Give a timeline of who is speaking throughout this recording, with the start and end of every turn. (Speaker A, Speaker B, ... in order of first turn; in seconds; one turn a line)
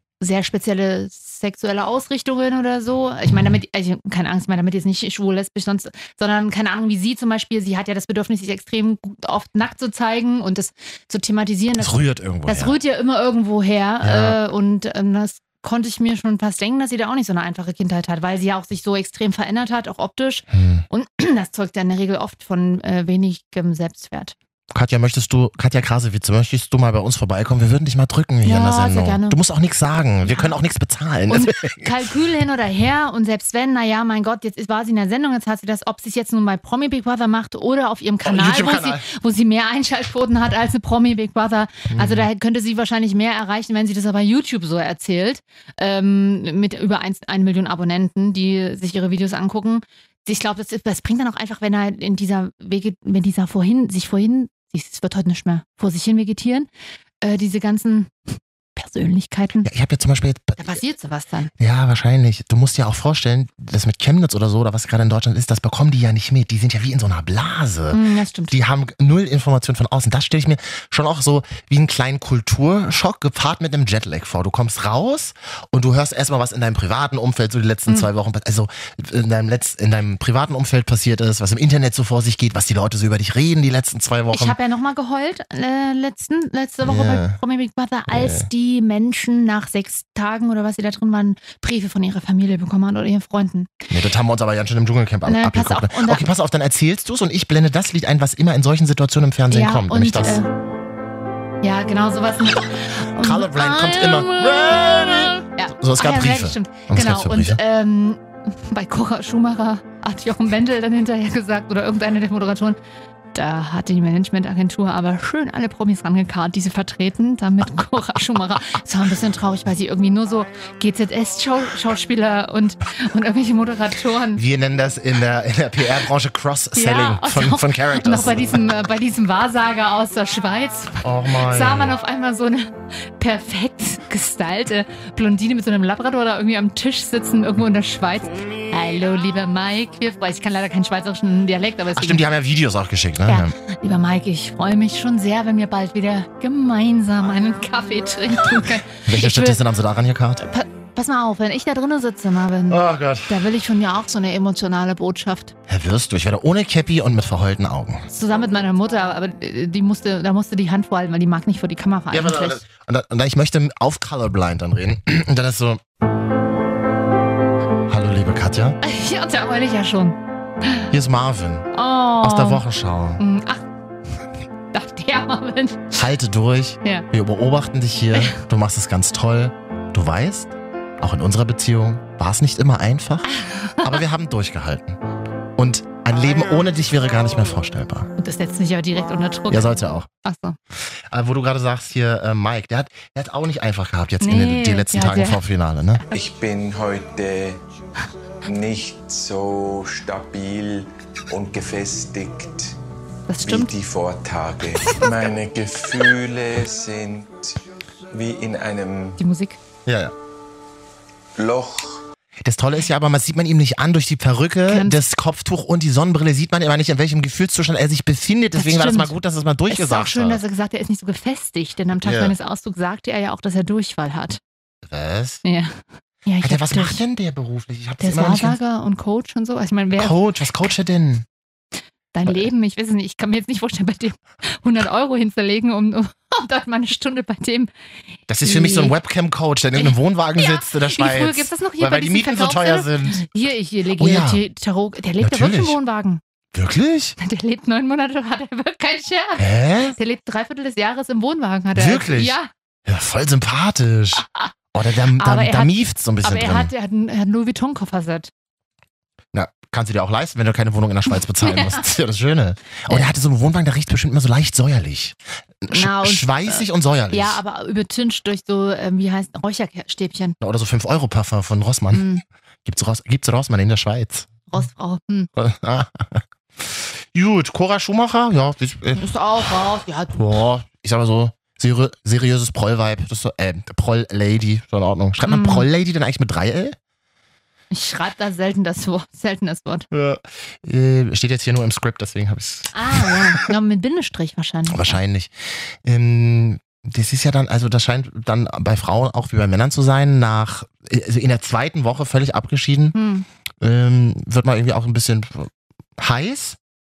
Speaker A: 0.2-24.4
Speaker B: 11.8-12.8
Speaker B: 14.0-14.4
Speaker B: 20.5-20.9
Speaker B: 24.7-31.9
Speaker A: 28.4-29.4
Speaker A: 30.2-30.5
Speaker A: 31.3-56.7
Speaker B: 38.2-39.0
Speaker B: 41.9-42.3
Speaker A: 57.2-58.1
Speaker A: 58.8-59.7
Speaker B: 59.6-60.8
Speaker A: 60.6-61.5
Speaker B: 61.6-84.6
Speaker A: 67.9-68.5
Speaker A: 84.3-93.7
Speaker B: 86.8-87.4
Speaker B: 88.1-88.5
Speaker B: 93.9-100.4
Speaker A: 95.2-96.2
Speaker A: 99.5-100.5
Speaker A: 101.6-112.8
Speaker B: 103.2-107.6
Speaker A: 113.3-124.4
Speaker B: 124.4-128.7
Speaker A: 126.8-142.2
Speaker B: 131.0-132.0
Speaker B: 141.9-143.6
Speaker A: 143.3-149.6
Speaker B: 149.0-150.4
Speaker A: 150.4-155.5
Speaker B: 152.7-153.3
Speaker B: 155.7-158.1
Speaker A: 158.1-162.6
Speaker B: 162.1-165.8
Speaker B: 167.9-168.8
Speaker A: 168.8-170.9
Speaker B: 170.9-171.7
Speaker A: 171.7-172.6
Speaker B: 172.2-173.2
Speaker A: 173.2-173.7
Speaker A: 174.7-175.9
Speaker B: 175.9-185.0
Speaker A: 178.1-178.4
Speaker A: 183.3-183.9
Speaker B: 185.6-188.1
Speaker A: 188.2-190.6
Speaker B: 189.5-190.1
Speaker B: 191.1-196.0
Speaker A: 194.2-195.4
Speaker C: 196.1-197.6
Speaker C: 198.4-202.8
Speaker A: 203.3-203.7
Speaker C: 203.4-207.6
Speaker C: 208.1-209.2
Speaker A: 209.2-209.6
Speaker B: 209.9-210.1
Speaker C: 211.4-212.0
Speaker B: 212.4-220.4
Speaker A: 214.7-215.0
Speaker A: 218.6-219.1
Speaker A: 219.7-224.4
Speaker B: 222.0-222.3
Speaker B: 224.8-225.4
Speaker A: 225.4-227.0
Speaker B: 226.4-228.6
Speaker A: 228.0-230.2
Speaker B: 230.0-231.3
Speaker A: 232.1-237.7
Speaker B: 238.3-243.3
Speaker A: 238.4-238.9
Speaker A: 239.8-246.2
Speaker B: 244.0-244.4
Speaker B: 245.2-245.8
Speaker B: 246.5-247.2
Speaker A: 247.2-252.5
Speaker B: 249.4-250.0
Speaker B: 251.8-256.7
Speaker A: 254.2-254.5
Speaker A: 255.2-258.3
Speaker B: 259.3-267.4
Speaker A: 261.4-261.9
Speaker A: 265.7-270.4
Speaker B: 270.4-272.1
Speaker A: 271.9-272.2
Speaker B: 272.6-274.3
Speaker A: 274.5-275.3
Speaker B: 275.4-279.1
Speaker A: 279.0-280.2
Speaker B: 280.1-286.8
Speaker A: 285.2-285.7
Speaker A: 287.7-289.9
Speaker B: 289.9-293.4
Speaker A: 292.7-295.0
Speaker B: 294.7-303.0
Speaker A: 302.9-303.3
Speaker B: 303.6-306.6